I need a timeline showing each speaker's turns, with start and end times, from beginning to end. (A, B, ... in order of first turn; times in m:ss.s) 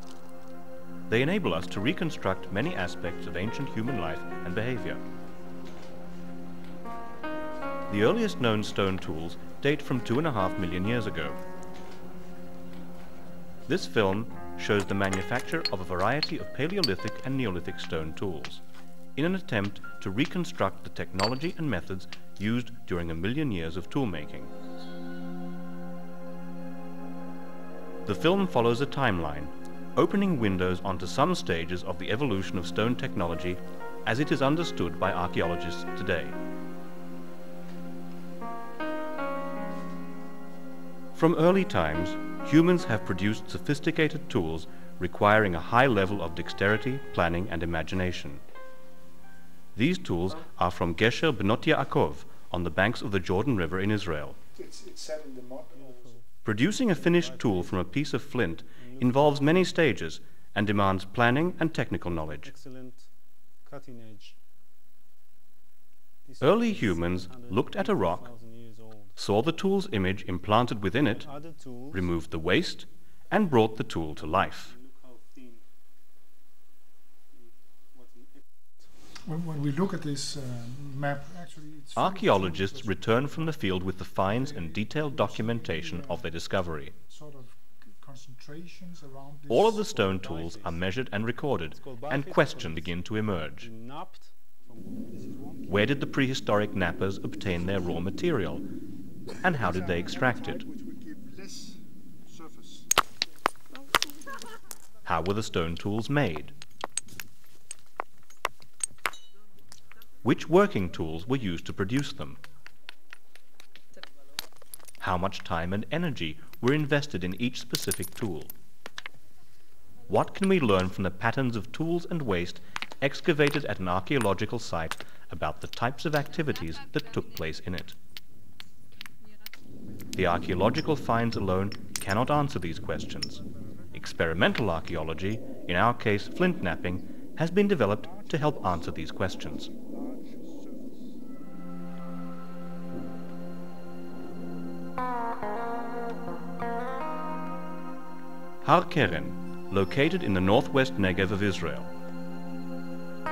0:01.1-0:05.0 A
0:07.9-0:11.4 A
0:13.7-0:18.6 A
0:19.2-0:24.5 A
0:28.1-0:36.4 A
0:41.2-0:48.4 A
0:49.8-0:54.4 A
0:54.6-0:56.2 B
0:55.7-0:58.0 C
0:56.4-1:02.5 A
0:58.8-0:59.7 C
1:02.1-1:03.1 C
1:03.6-1:04.4 C
1:06.2-1:09.2 C
1:06.4-1:08.3 A
1:09.2-1:11.3 A
1:11.0-1:12.1 C
1:11.9-1:14.7 A
1:14.2-1:15.6 C
1:17.3-1:18.4 C
1:19.2-1:23.6 B
1:22.0-1:26.9 A
1:24.2-1:26.3 B
1:27.1-1:29.9 B
1:29.5-1:33.7 A
1:29.8-1:30.8 C
1:31.8-1:33.0 C
1:33.6-1:35.1 C
1:35.1-1:35.9 B
1:35.7-1:38.6 A
1:39.4-1:42.9 B
1:39.4-1:40.6 A
1:45.0-1:46.5 A
1:50.2-1:52.4 A
1:55.0-1:58.5 A
2:00.1-2:08.0 A
2:10.1-2:19.7 A
2:17.9-2:21.0 B
2:28.6-2:31.9 A